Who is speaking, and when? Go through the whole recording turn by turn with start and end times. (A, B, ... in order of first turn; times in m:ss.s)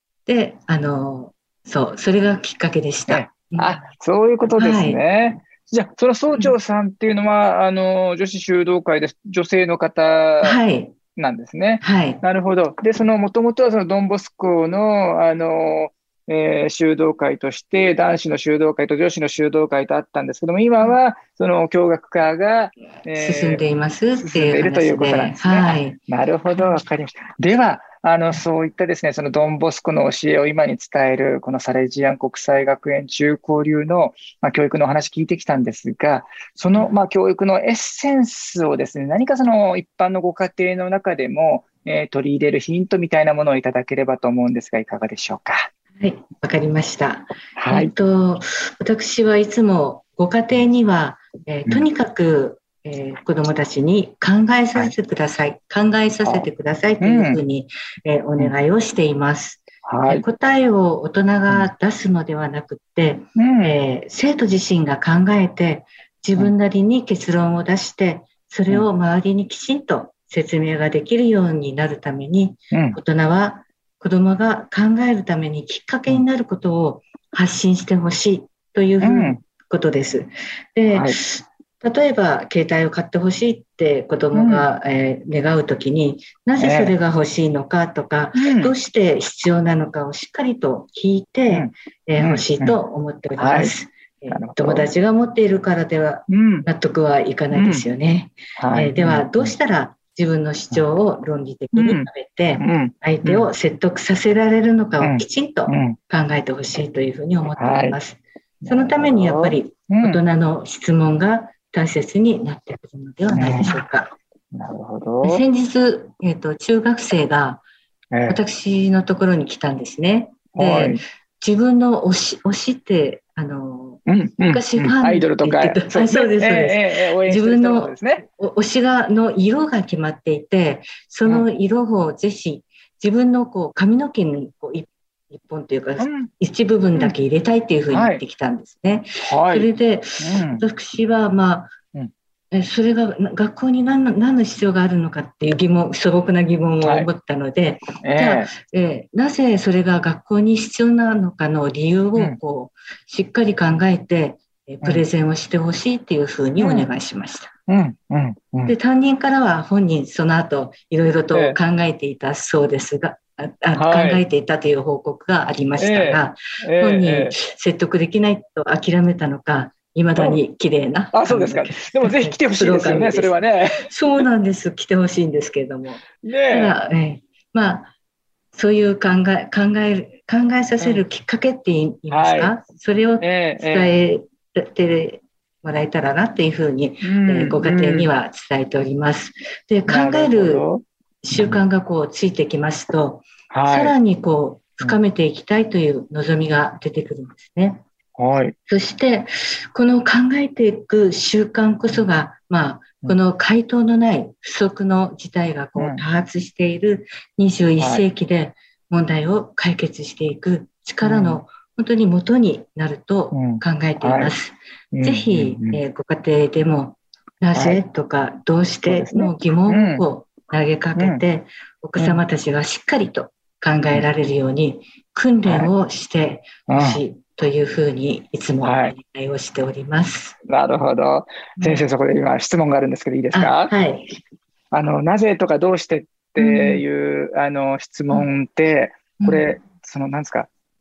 0:00.2-0:03.9 A
0:03.1-0:10.6 B
0:04.5-0:05.0 A
0:06.3-0:06.6 A
0:10.4-0:11.0 A
0:11.2-0:23.6 B
0:11.8-0:12.2 A
0:23.1-0:26.0 A
0:24.2-0:45.7 B
0:26.6-0:26.8 A
0:46.0-1:54.1 A
0:47.6-0:47.9 B
0:57.0-0:57.4 B
0:59.8-1:00.2 B
1:03.4-1:03.8 B
1:12.7-1:13.0 B
1:19.0-1:19.4 B
1:20.9-1:21.2 B
1:24.3-1:24.6 B
1:26.6-1:26.9 B
1:28.4-1:28.7 B
1:31.5-1:32.8 B
1:33.4-1:33.7 B
1:34.3-1:34.9 B
1:36.3-1:36.7 B
1:37.5-1:37.8 B
1:38.6-1:39.5 B
1:41.7-1:43.5 B
1:45.0-1:46.0 B
1:47.6-1:48.0 B
1:48.6-1:50.2 B
1:53.3-1:53.8 B
1:54.5-1:55.4 B
1:55.2-1:57.6 A
1:58.1-1:58.4 B
1:58.3-2:21.7 A
2:00.5-2:01.0 B
2:04.0-2:08.2 B
2:16.0-2:16.3 B
2:17.9-2:18.2 B
2:19.2-2:20.6 B
2:22.5-2:37.5 A
2:26.8-2:27.1 B
2:28.0-2:28.5 B
2:36.6-2:36.9 B
2:37.7-2:38.8 B
2:38.6-2:57.9 A
2:41.3-2:41.6 B
2:43.8-2:44.2 B
2:45.8-2:47.4 B
2:51.1-2:53.9 B
2:56.2-2:56.8 B
2:58.5-3:10.7 A
3:02.1-3:02.5 B
3:03.2-3:03.9 B
3:07.0-3:08.1 B
3:09.9-3:11.6 B
3:11.2-3:17.8 A
3:13.5-3:14.0 B
3:18.2-3:18.5 B
3:18.7-3:50.4 A
3:25.8-3:26.0 B
3:27.8-3:28.0 B
3:31.0-3:31.4 B
3:33.3-3:34.3 B
3:34.9-3:35.8 B
3:37.5-3:37.8 B
3:38.8-3:40.0 B
3:41.0-3:41.2 B
3:45.4-3:45.7 B
3:46.7-3:47.0 B
3:48.6-3:48.9 B
3:50.5-3:53.7 B
3:51.6-3:51.8 A
3:53.3-3:54.2 A
3:54.7-4:00.5 B
3:56.4-3:56.8 A
3:59.2-3:59.5 A